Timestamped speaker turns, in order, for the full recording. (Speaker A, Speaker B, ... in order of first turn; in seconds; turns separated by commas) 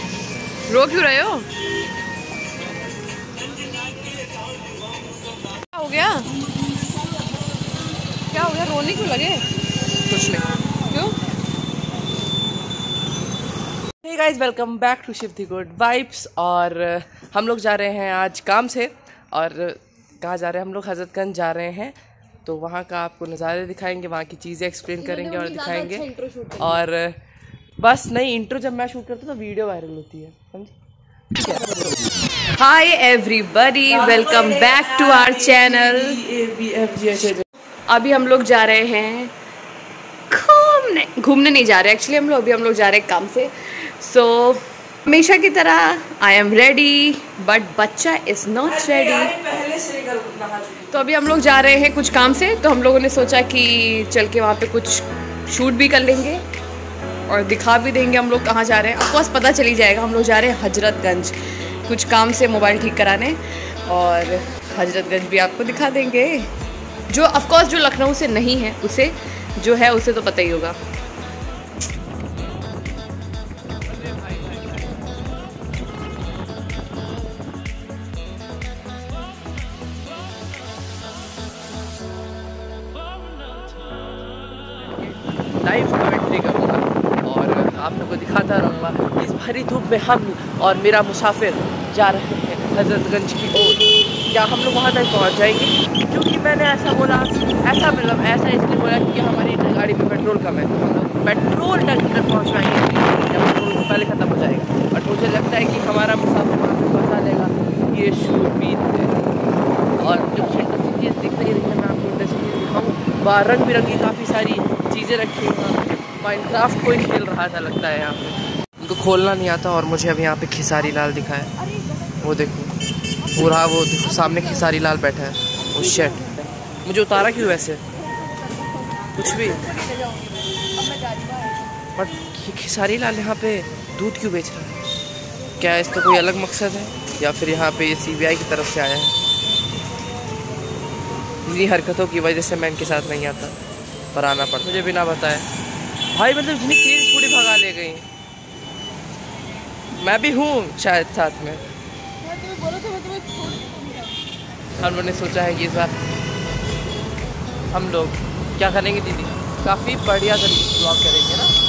Speaker A: 0.7-1.5, Speaker A: 5.7-6.3, Speaker A: 8.3-9.5, Speaker B: 10.0-10.4, Speaker A: 10.9-11.2, Speaker B: 14.0-27.2, Speaker A: 25.0-26.8, Speaker B: 27.8-30.8, Speaker B: 31.3-32.0, Speaker A: 32.5-36.2, Speaker B: 33.9-37.5, Speaker A: 37.9-39.3, Speaker A: 40.3-49.4, Speaker B: 48.6-50.9, Speaker A: 50.9-56.4, Speaker A: 57.3-66.5, Speaker A: 67.1-70.8, Speaker B: 84.8-109.1, Speaker A: 109.9-110.8, Speaker B: 110.0-121.5, Speaker A: 120.8-122.3, Speaker B: 122.2-122.8, Speaker A: 123.2-124.8, Speaker B: 123.3-127.8, Speaker A: 125.6-126.4, Speaker A: 128.0-131.8, Speaker B: 129.1-129.7, Speaker B: 131.9-134.8, Speaker B: 135.6-139.2, Speaker B: 141.4-143.6, Speaker B: 144.1-145.5, Speaker B: 146.1-148.1, Speaker B: 149.9-151.6, Speaker A: 152.2-154.2, Speaker B: 154.8-156.0, Speaker B: 157.7-161.6